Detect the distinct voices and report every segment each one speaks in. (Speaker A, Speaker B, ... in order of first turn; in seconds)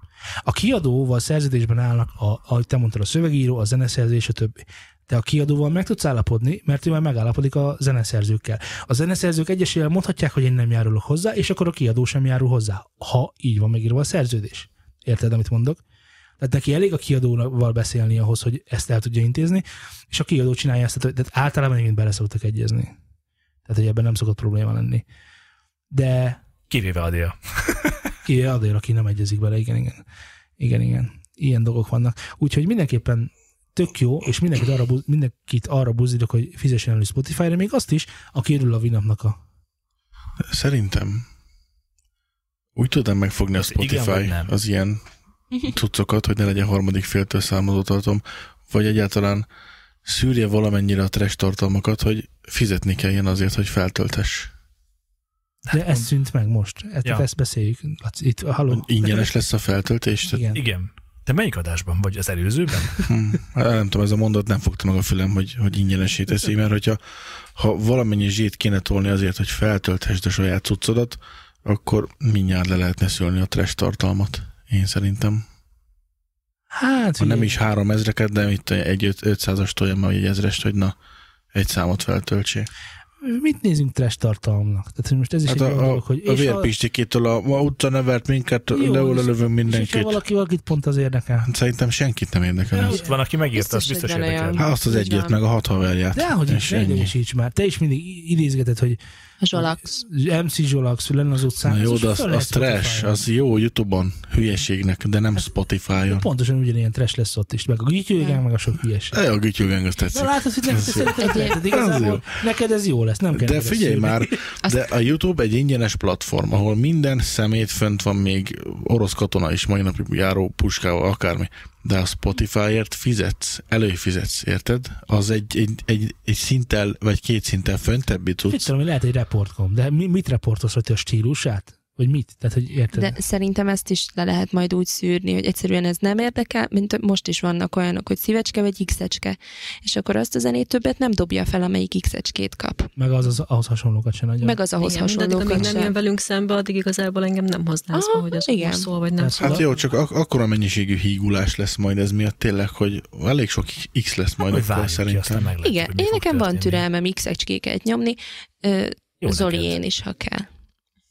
Speaker A: 0.4-15.8, 16.4-22.9, 23.6-25.0, 25.9-26.4, 28.2-30.0, 30.6-39.4, 55.7-59.3, 60.2-60.6, 76.7-77.6, 83.2-86.7, 88.7-91.5, 92.7-93.1, 96.1-99.0, 99.5-103.2, 106.0-109.2, 110.1-114.4, 128.5-133.2, 142.9-144.6, 149.2-149.7
Speaker B: 26.7-28.0, 43.6-44.5, 55.6-56.1, 60.5-63.1, 92.8-94.7, 154.5-156.8, 159.2-159.8
Speaker C: 40.5-41.2, 42.8-45.0, 45.6-49.5, 50.0-54.5, 58.7-60.4, 63.0-67.0, 67.5-75.4, 77.2-80.9, 81.5-82.7, 85.5-90.2, 91.4-93.0, 94.6-97.1, 101.6-106.2, 109.1-112.2, 113.3-128.7, 149.4-155.5
Speaker D: 93.5-95.4, 99.4-100.0, 111.2-111.6, 132.9-142.9, 144.4-145.9, 147.9-148.9, 155.6-160.5
Speaker E: 144.8-149.6